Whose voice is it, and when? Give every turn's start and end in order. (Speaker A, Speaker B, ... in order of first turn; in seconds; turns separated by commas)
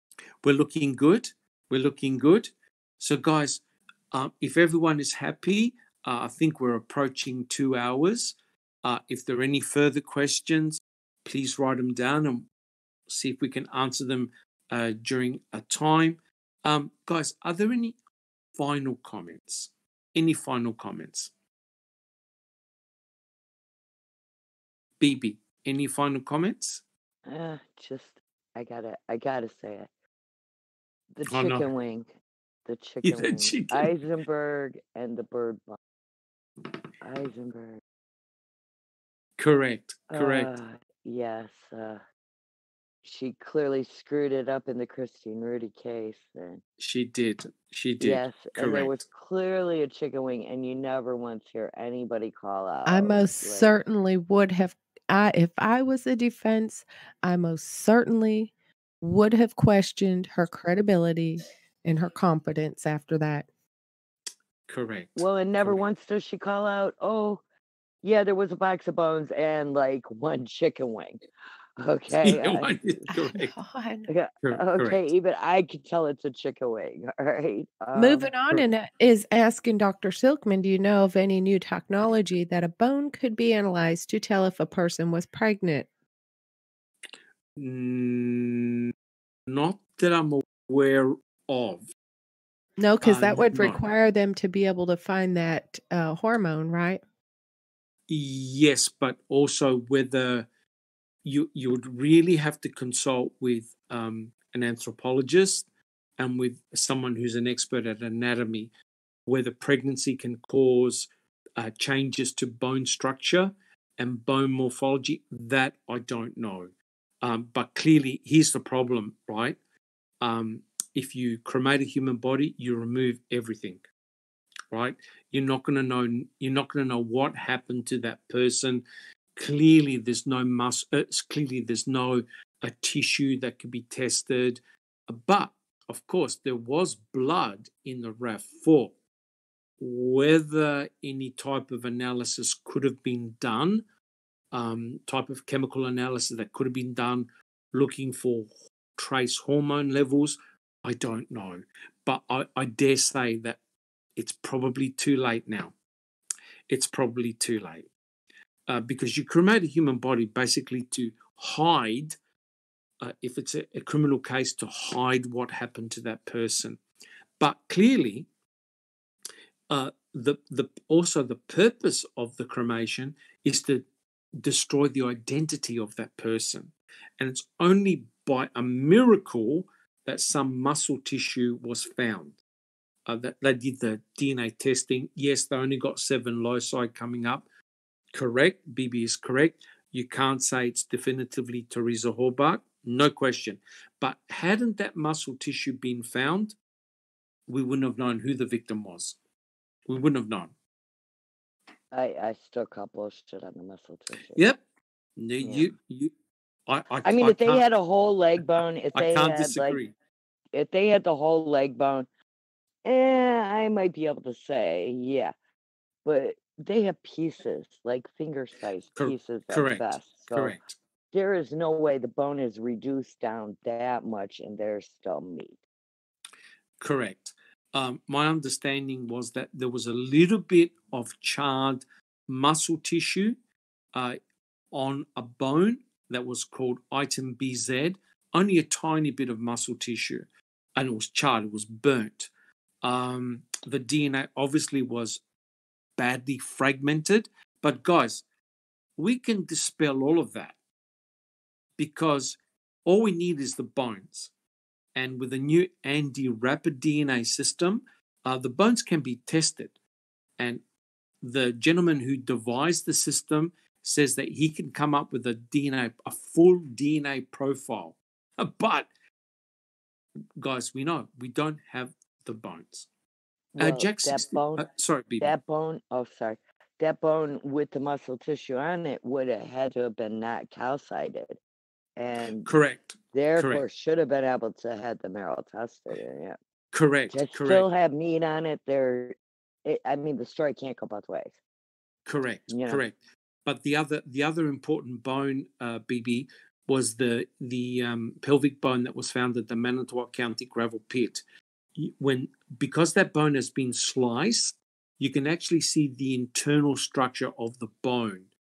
Speaker A: 0.4-12.5, Speaker A: 13.1-18.0, Speaker A: 18.6-21.3, Speaker A: 25.0-26.8, Speaker B: 27.3-29.9, Speaker B: 31.2-32.1, Speaker A: 31.3-31.7, Speaker B: 32.7-35.8, Speaker A: 33.0-33.9, Speaker B: 37.0-37.8, Speaker A: 39.4-40.5, Speaker B: 40.1-42.0, Speaker B: 43.0-46.6, Speaker A: 46.8-49.0, Speaker B: 48.0-53.8, Speaker C: 52.9-63.5, Speaker A: 64.7-65.8, Speaker B: 65.2-67.4, Speaker B: 68.0-71.2, Speaker B: 71.8-72.9, Speaker A: 72.1-73.5, Speaker C: 73.1-74.1, Speaker B: 74.1-78.6, Speaker A: 74.4-75.0, Speaker C: 78.0-85.9, Speaker A: 87.6-88.9, Speaker A: 89.5-91.9, Speaker C: 92.8-97.0, Speaker A: 93.0-93.8, Speaker A: 98.1-100.5, Speaker A: 101.2-105.7, Speaker A: 106.2-108.7, Speaker A: 109.3-116.7, Speaker A: 117.2-119.6, Speaker A: 120.2-123.8, Speaker A: 124.7-128.8, Speaker A: 129.4-138.9, Speaker A: 139.8-143.8, Speaker A: 144.5-153.6, Speaker A: 154.2-155.7, Speaker A: 156.7-157.9, Speaker A: 158.7-162.2, Speaker A: 163.0-166.8, Speaker A: 167.4-168.3, Speaker A: 169.7-173.8, Speaker A: 174.4-182.4, Speaker A: 183.1-187.4, Speaker A: 188.1-196.6, Speaker A: 197.5-199.2, Speaker A: 199.9-200.5, Speaker B: 201.9-204.4, Speaker A: 204.4-204.6, Speaker A: 205.2-206.1, Speaker B: 205.4-205.7, Speaker A: 206.7-207.7, Speaker B: 207.1-209.8, Speaker A: 208.4-209.9, Speaker B: 210.5-212.1, Speaker B: 212.8-215.3, Speaker B: 216.1-220.6, Speaker A: 218.9-220.8, Speaker B: 221.1-225.6, Speaker A: 226.8-233.4, Speaker A: 234.7-242.3, Speaker A: 242.8-245.2, Speaker A: 246.0-248.2, Speaker A: 249.0-250.6, Speaker A: 251.8-254.3, Speaker A: 254.9-259.7, Speaker A: 261.2-268.9, Speaker A: 270.4-272.9, Speaker B: 273.6-274.7, Speaker A: 273.6-275.3, Speaker B: 275.2-281.4, Speaker B: 282.0-282.5, Speaker A: 282.4-283.6, Speaker B: 283.1-286.4, Speaker A: 286.7-287.7, Speaker B: 287.1-291.4, Speaker A: 292.1-301.2, Speaker B: 292.5-292.8, Speaker A: 301.8-308.3